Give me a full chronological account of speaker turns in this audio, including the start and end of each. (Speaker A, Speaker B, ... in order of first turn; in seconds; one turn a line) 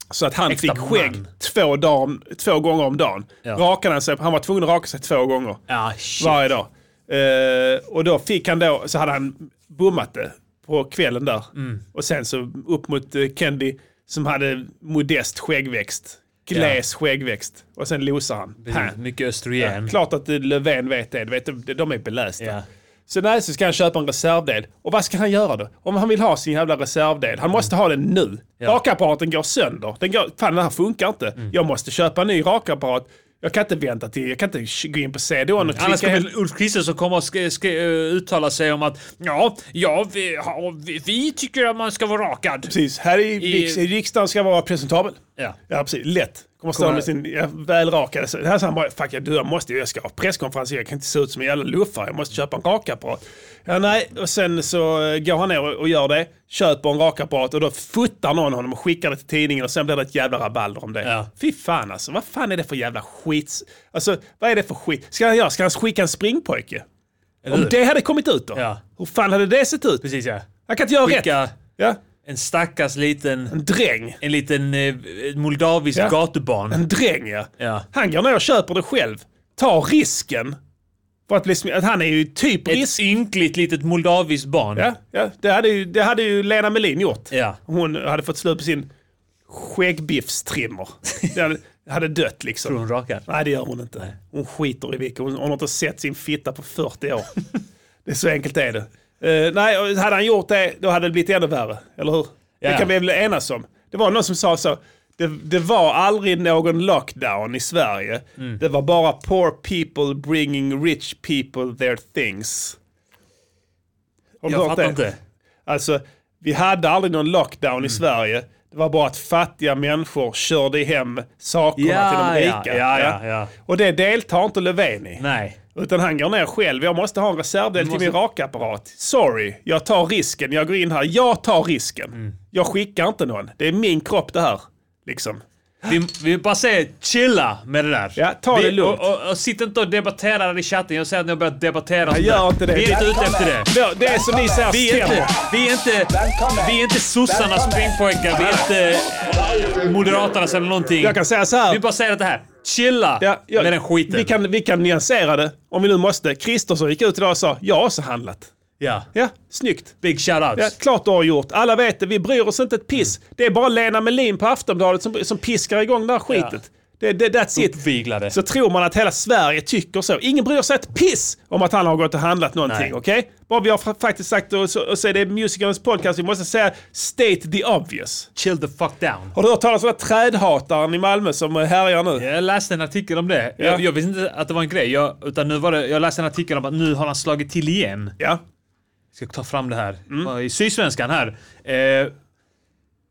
Speaker A: 0.1-5.6
Speaker B: 0.5-1.3
Speaker B: 5.7-6.4
Speaker A: 6.2-19.0
Speaker B: 11.6-11.8
Speaker B: 18.6-19.9
Speaker A: 19.6-36.3
Speaker B: 22.4-22.6
Speaker B: 35.6-42.7
Speaker A: 42.7-66.8
Speaker B: 43.4-43.8
Speaker B: 46.7-47.1
Speaker B: 61.0-61.3
Speaker B: 67.4-67.8
Speaker A: 67.5-70.0
Speaker B: 68.5-68.8
Speaker B: 70.0-70.5
Speaker A: 70.7-72.0
Speaker B: 71.0-71.6
Speaker B: 72.2-73.6
Speaker A: 73.5-74.2
Speaker B: 74.2-76.8
Speaker A: 76.7-80.6
Speaker B: 77.6-77.9
Speaker A: 81.3-83.0
Speaker B: 82.7-84.9
Speaker A: 84.8-88.9
Speaker B: 87.3-87.6
Speaker A: 89.5-97.4
Speaker B: 92.6-93.2
Speaker A: 98.0-112.8
Speaker B: 102.6-102.9
Speaker A: 114.4-115.0
Speaker B: 114.5-115.2
Speaker A: 115.7-125.2
Speaker B: 121.8-123.5
Speaker B: 125.2-125.6
Speaker A: 125.8-135.9
Speaker B: 127.8-128.2
Speaker B: 135.9-143.7
Speaker A: 138.2-139.1
Speaker A: 142.1-145.4
Speaker B: 144.7-154.3
Speaker A: 151.0-151.8
Speaker A: 153.2-158.5
Speaker B: 158.8-159.1
Speaker A: 159.1-160.0
Speaker B: 160.0-160.8
Speaker A: 160.6-178.3
Speaker B: 166.3-166.6
Speaker B: 167.6-168.4
Speaker B: 172.7-172.9
Speaker B: 178.4-179.3
Speaker A: 179.3-182.3
Speaker B: 182.2-188.2
Speaker A: 183.6-183.8
Speaker B: 189.1-192.1